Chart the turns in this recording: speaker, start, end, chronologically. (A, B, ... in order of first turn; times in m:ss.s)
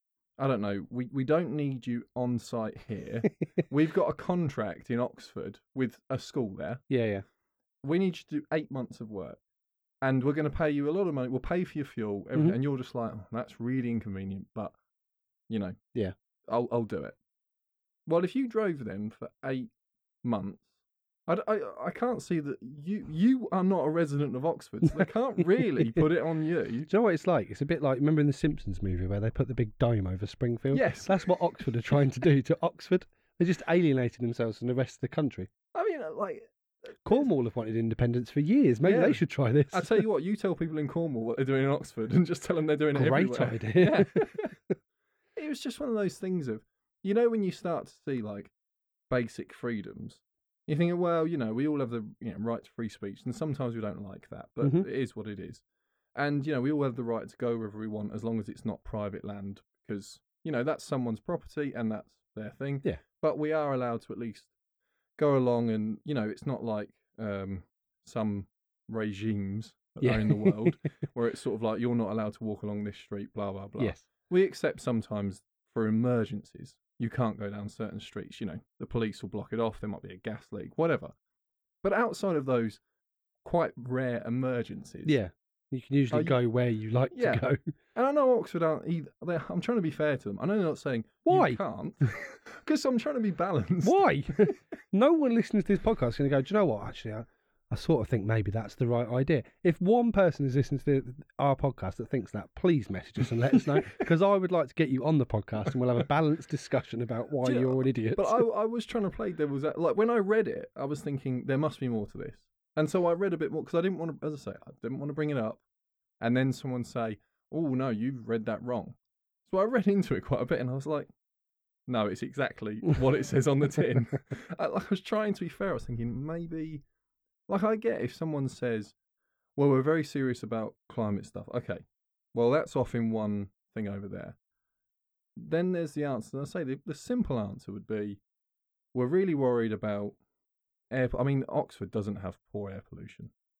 0:00.4-0:06.8 A
0:06.9-0:07.2 B
0:07.8-0:09.4 A
0:10.0-0:14.8 A
0:15.5-0:15.8 A
0:16.5-0:17.2 A
0:18.1-0:19.7 A
0:20.2-0:20.7 A
0:21.3-0:26.9 A
0:26.9-0:35.5 B
0:30.7-0:31.4 A
0:35.7-0:36.5 A
0:37.0-0:40.0 B
0:38.8-0:44.6 A
0:43.0-0:44.7 B
0:45.4-0:48.5 A
0:49.1-0:55.6 A
0:56.2-1:04.5 A
1:05.2-1:21.1 A
1:10.0-1:10.8 B
1:13.8-1:14.0 B
1:21.8-1:22.8 A
1:23.4-1:25.2 A
1:25.0-1:27.6 B
1:26.1-1:26.4 A
1:27.1-1:34.6 A
1:31.2-1:31.6 B
1:33.8-1:48.4 B
1:43.5-1:44.0 A
1:47.4-1:55.6 A
1:56.2-2:01.1 A
2:01.9-2:06.8 A
2:07.5-2:09.0 A
2:09.6-2:14.4 A
2:15.4-2:18.2 A
2:18.9-2:20.2 A
2:20.9-2:23.3 A